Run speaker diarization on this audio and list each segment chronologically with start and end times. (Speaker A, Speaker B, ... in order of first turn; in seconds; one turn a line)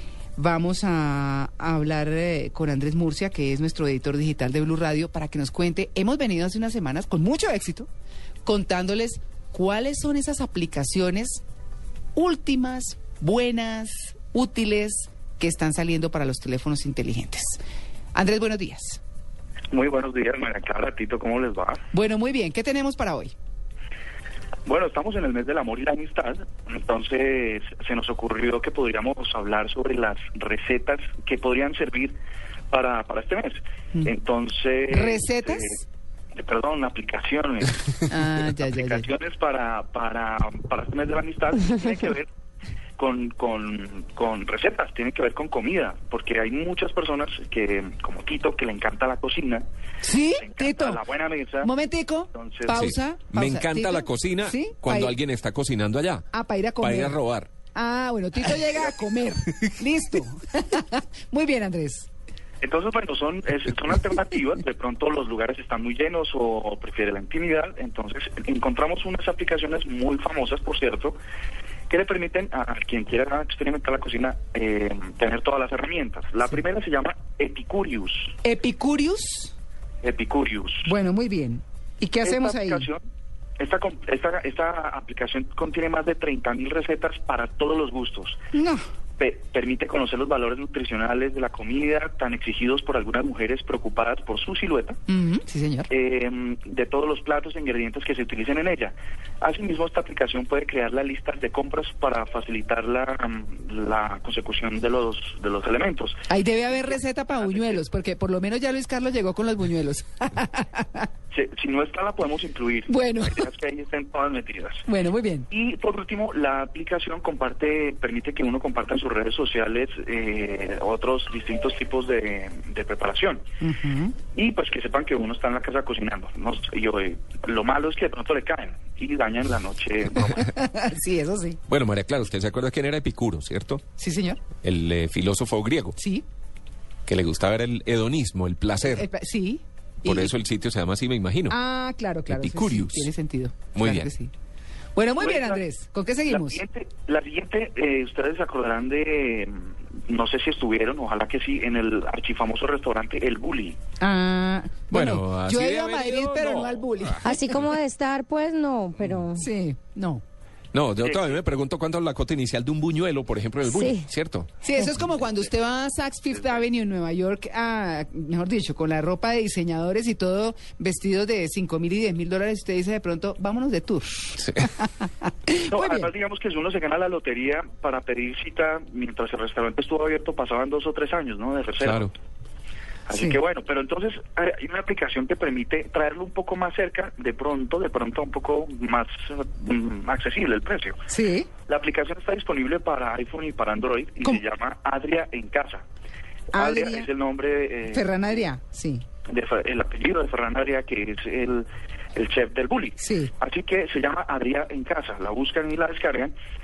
Speaker A: 0.4-7.9
Speaker A: 8.4-11.4
Speaker A: 12.2-17.6
Speaker A: 18.1-19.0
Speaker B: 19.7-21.8
Speaker A: 21.9-23.3
Speaker B: 24.7-32.2
Speaker B: 32.7-35.8
Speaker A: 34.9-35.8
Speaker B: 36.4-37.8
Speaker A: 38.1-39.1
Speaker B: 38.6-42.3
Speaker B: 43.0-49.6
Speaker A: 50.0-51.0
Speaker B: 50.4-51.7
Speaker A: 51.6-55.1
Speaker B: 52.3-52.9
Speaker C: 52.7-56.3
Speaker A: 56.3-57.2
Speaker C: 56.8-57.5
Speaker A: 57.7-62.1
Speaker B: 62.6-71.2
Speaker B: 71.9-78.3
Speaker A: 78.4-79.5
Speaker B: 80.0-80.9
Speaker A: 80.8-82.9
Speaker B: 82.2-83.0
Speaker B: 83.6-88.4
Speaker A: 88.5-88.8
Speaker B: 89.2-95.0
Speaker A: 95.1-95.9
Speaker B: 95.9-106.2
Speaker A: 106.3-111.1
Speaker B: 107.4-107.8
Speaker B: 111.3-114.8
Speaker A: 112.9-113.5
Speaker A: 114.9-115.5
Speaker B: 115.5-123.4
Speaker A: 123.6-124.2
Speaker B: 124.3-130.4
Speaker A: 130.3-131.6
Speaker C: 131.7-133.8
Speaker A: 134.0-134.4
Speaker C: 134.6-136.0
Speaker A: 136.0-136.2
Speaker C: 137.1-139.1
Speaker A: 138.8-140.3
Speaker C: 140.1-141.6
Speaker A: 141.5-144.3
Speaker C: 142.3-143.1
Speaker C: 143.7-144.1
Speaker A: 145.0-146.6
Speaker B: 145.2-145.6
Speaker B: 146.3-153.8
Speaker A: 154.0-157.4
Speaker C: 154.9-156.8
Speaker D: 157.2-159.5
Speaker C: 157.4-157.7
Speaker A: 159.3-160.2
Speaker C: 160.7-164.5
Speaker B: 161.0-161.4
Speaker D: 163.7-164.1
Speaker A: 164.6-174.4
Speaker C: 174.4-174.7
Speaker A: 175.5-176.1
Speaker B: 175.7-182.1
Speaker C: 181.8-182.1
Speaker B: 183.1-191.0
Speaker A: 183.1-183.4
Speaker A: 191.1-191.5
Speaker B: 191.7-195.8
Speaker A: 196.5-197.1
Speaker B: 196.5-198.1
Speaker A: 197.9-199.0
Speaker B: 199.3-206.3
Speaker A: 203.0-203.3